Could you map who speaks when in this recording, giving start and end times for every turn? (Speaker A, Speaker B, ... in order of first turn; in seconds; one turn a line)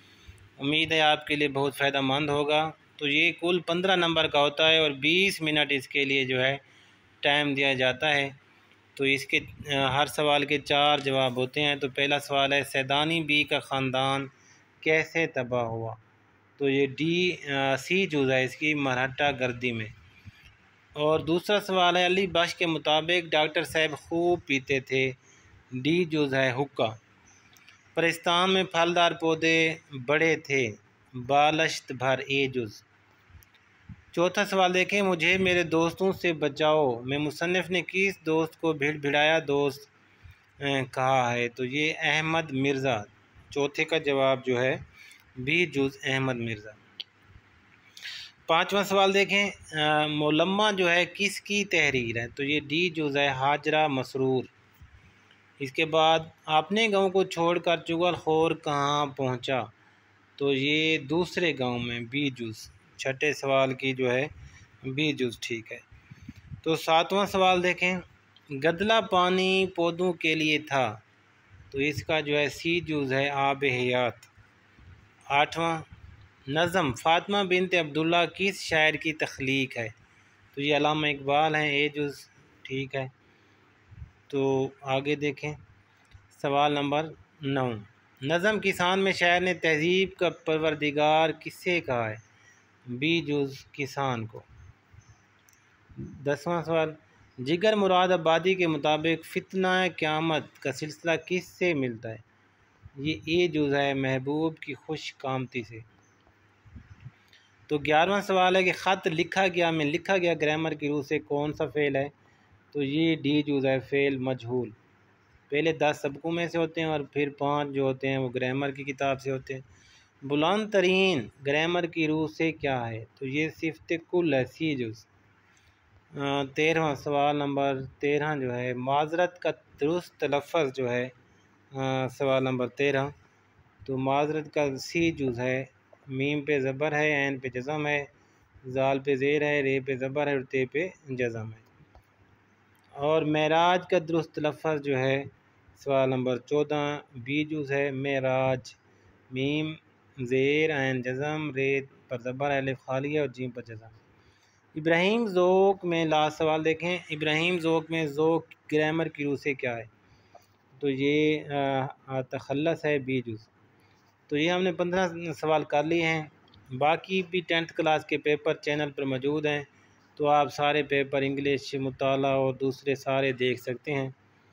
Speaker A: 0.6-6.6
Speaker A: 7.2-8.3
Speaker A: 8.9-16.0
Speaker A: 16.6-19.9
Speaker A: 20.9-25.2
Speaker A: 25.7-27.0
Speaker A: 27.9-32.9
Speaker A: 34.1-39.9
Speaker A: 40.6-44.8
Speaker A: 45.4-46.8
Speaker A: 48.5-54.5
Speaker A: 55.6-59.7
Speaker A: 60.4-64.3
Speaker A: 64.8-65.8
Speaker A: 66.6-71.0
Speaker A: 71.7-74.3
Speaker A: 75.3-75.9
Speaker A: 76.5-79.9
Speaker A: 80.5-83.1
Speaker A: 84.3-85.6
Speaker A: 86.3-92.2
Speaker A: 92.9-94.5
Speaker A: 96.0-102.2
Speaker A: 103.0-105.8
Speaker A: 107.7-112.1
Speaker A: 112.7-114.7
Speaker A: 115.5-119.6
Speaker A: 120.2-125.1
Speaker A: 126.1-131.1
Speaker A: 131.7-133.1
Speaker A: 133.8-138.1
Speaker A: 138.6-141.6
Speaker A: 143.0-148.8
Speaker A: 149.3-153.9
Speaker A: 154.7-159.9
Speaker A: 160.8-163.5
Speaker A: 164.3-174.1